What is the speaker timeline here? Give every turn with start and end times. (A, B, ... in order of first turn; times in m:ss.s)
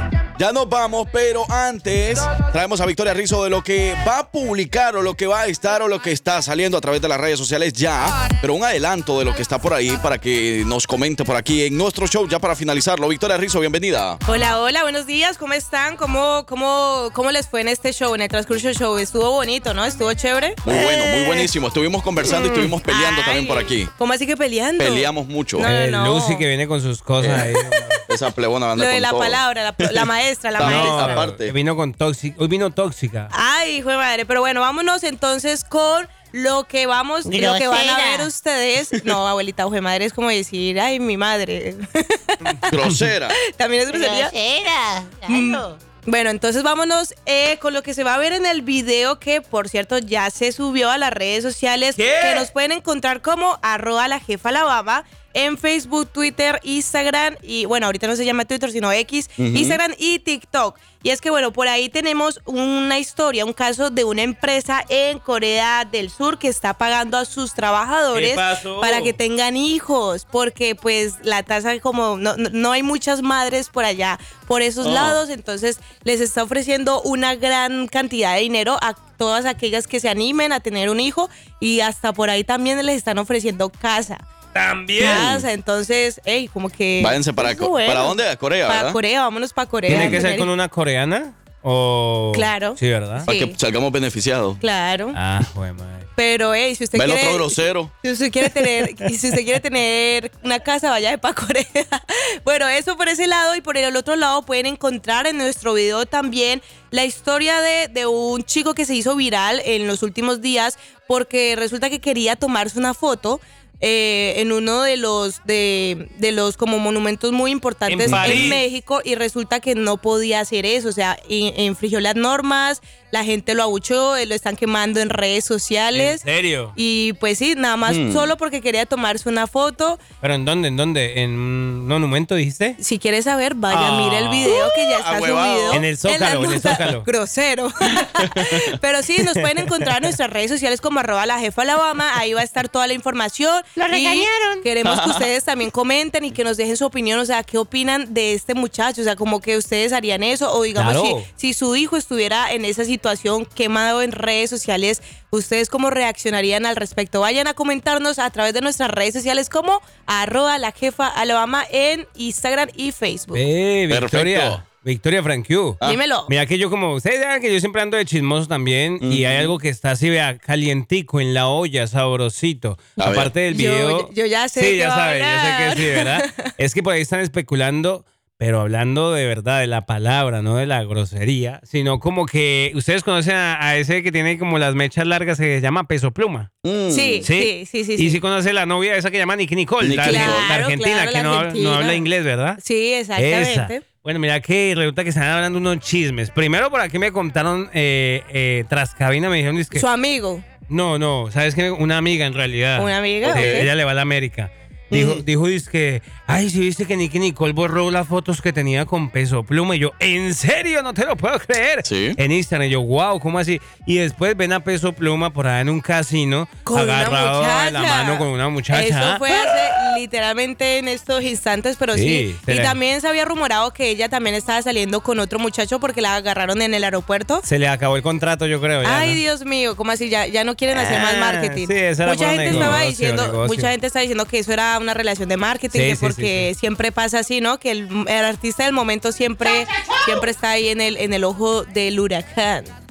0:00.3-0:14.2 A
0:14.2-0:20.7 B
0:20.6-0:23.9 A
0:22.2-0:26.4 B
0:24.8-0:25.6 A
0:25.6-0:28.0 C
0:27.2-0:27.5 A
0:28.1-0:31.5 A
0:28.8-0:31.3 B
0:30.6-0:33.3 C
0:33.3-0:42.7 B
0:37.2-0:38.3 D
0:42.7-0:43.3 A
0:43.3-0:44.3 B
0:43.9-0:45.8 D
0:45.3-1:24.3 B
0:51.9-0:52.5 C
0:59.4-0:59.8 A
1:08.1-1:09.2 C
1:14.8-1:15.2 C
1:24.5-1:25.4 C
1:25.0-1:30.5 B
1:25.0-1:25.4 A
1:27.0-1:29.0 A
1:29.8-1:33.3 C
1:29.9-1:30.2 A
1:32.3-1:33.6 B
1:33.3-1:34.6 A
1:34.6-1:35.2 B
1:35.1-1:36.0 C
1:36.2-2:06.2 B
1:36.9-1:37.9 A
1:38.8-1:39.1 C
1:57.8-1:58.6 C
1:58.1-1:58.6 A
2:05.9-2:06.8 C
2:06.7-2:10.0 B
2:07.8-2:08.3 A
2:10.2-2:12.8 C
2:12.8-2:43.4 B
2:13.7-2:14.7 C
2:14.7-2:15.8 A
2:15.7-2:17.1 C
2:19.2-2:20.1 C
2:23.8-2:24.7 D
2:24.8-2:25.3 A
2:30.7-2:31.3 C
2:43.3-3:06.5 C
2:43.9-2:44.6 A
2:45.8-2:46.3 B
2:49.0-2:49.6 A
2:53.0-2:53.3 A
2:53.5-2:56.5 B
3:06.6-3:07.2 A
3:06.9-3:08.2 B
3:07.2-3:12.6 C
3:09.8-3:10.5 A
3:10.0-3:12.0 B
3:12.6-3:13.8 B
3:13.2-3:19.9 C
3:19.7-3:20.4 B
3:20.7-3:39.5 C
3:22.8-3:23.7 B
3:23.2-3:23.7 A
3:31.8-3:32.2 A
3:36.6-3:47.4 B
3:41.9-3:42.8 C
3:47.4-3:49.2 C
3:48.8-4:02.7 B
3:50.7-3:53.7 C
3:52.5-3:52.8 A
3:55.7-3:56.5 C